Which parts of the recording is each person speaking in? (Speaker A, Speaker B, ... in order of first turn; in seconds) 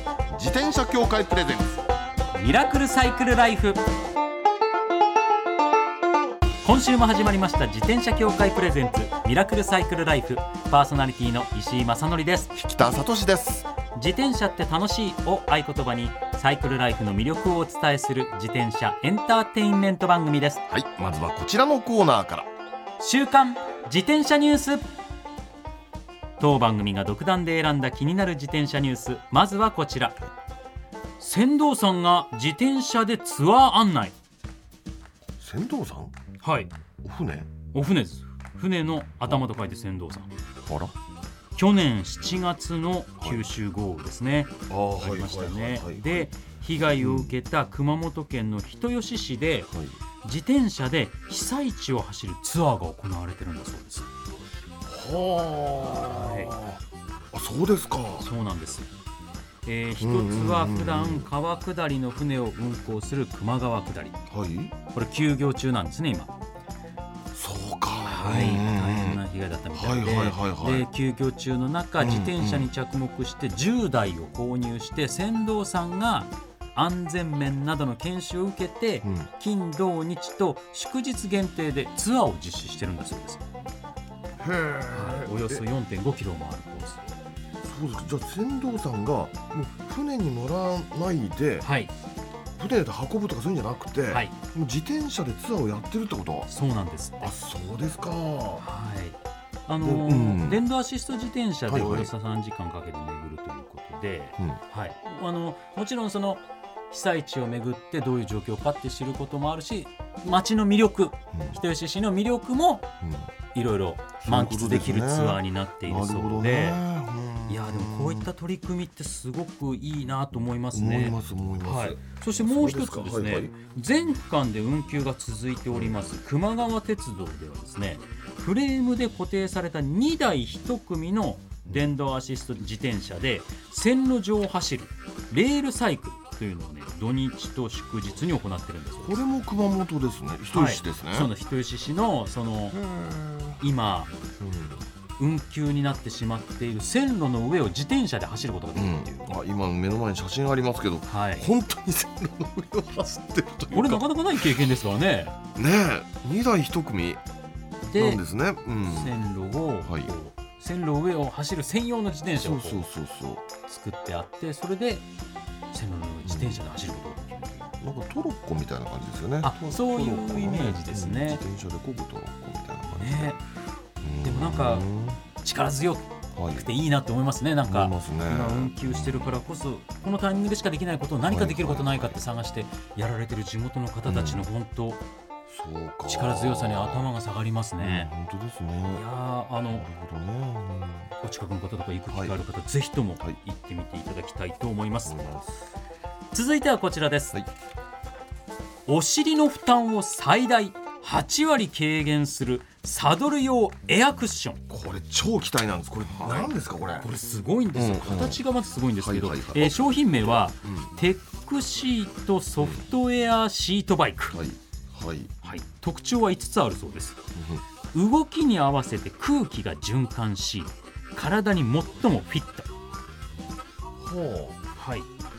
Speaker A: 0.3-1.8, 12.5-13.6, 20.7-22.5, 35.4-36.1, 37.0-37.5, 40.6-40.9, 43.2-43.5, 44.7-46.3, 47.0-47.4, 54.8-56.8, 57.3-58.3, 60.0-61.3, 64.3-64.7, 67.3-69.2, 69.7-70.9, 72.0-72.7, 79.0-79.3, 84.4-85.6, 87.7-91.7, 92.6-96.5, 97.2-98.6, 99.8-100.6, 101.7-102.1, 111.3-111.6, 113.0-113.3, 114.2-118.3, 120.7-123.5, 125.7-126.0, 139.0-141.3, 142.7-143.6, 144.4-144.8, 148.7-154.1, 155.5-157.2, 157.9-159.2, 159.8-160.1, 162.4-163.4, 166.2-166.6, 167.8-173.3, 174.0-175.2, 176.3-176.7, 177.7-179.4, 181.2-182.2, 184.0-184.5, 185.5-187.1, 187.8-189.1, 189.7-191.1, 192.1-192.3, 195.0-195.7, 204.7-207.1, 207.7-208.4, 209.0-210.9, 212.6-212.8, 214.3-215.3, 217.3-217.6, 224.0-224.6
Speaker B: 2.3-3.8, 6.6-12.5, 13.9-20.6, 23.0-24.8, 26.4-30.2, 31.2-34.1, 36.4-36.7, 37.7-40.3, 41.6-49.7, 50.2-54.1, 55.9-56.6, 58.2-58.9, 59.6-64.2, 64.9-66.3, 68.0-83.4, 84.9-87.1, 91.6-91.9, 96.5-97.3, 98.6-112.9, 113.5-116.8, 117.5-139.2, 140.5-142.8, 143.6-144.1, 145.2-149.3, 151.1-151.5, 153.7-155.3, 157.8-158.2, 158.8-162.8, 163.7-165.0, 165.7-167.7, 169.4-171.4, 172.9-173.4, 174.2-174.9, 175.4-185.0, 186.1-188.1, 188.9-189.9, 191.2-195.2, 196.3-197.4, 198.8-204.6, 206.1-214.4, 215.4-217.2, 217.9-222.7, 224.7-225.1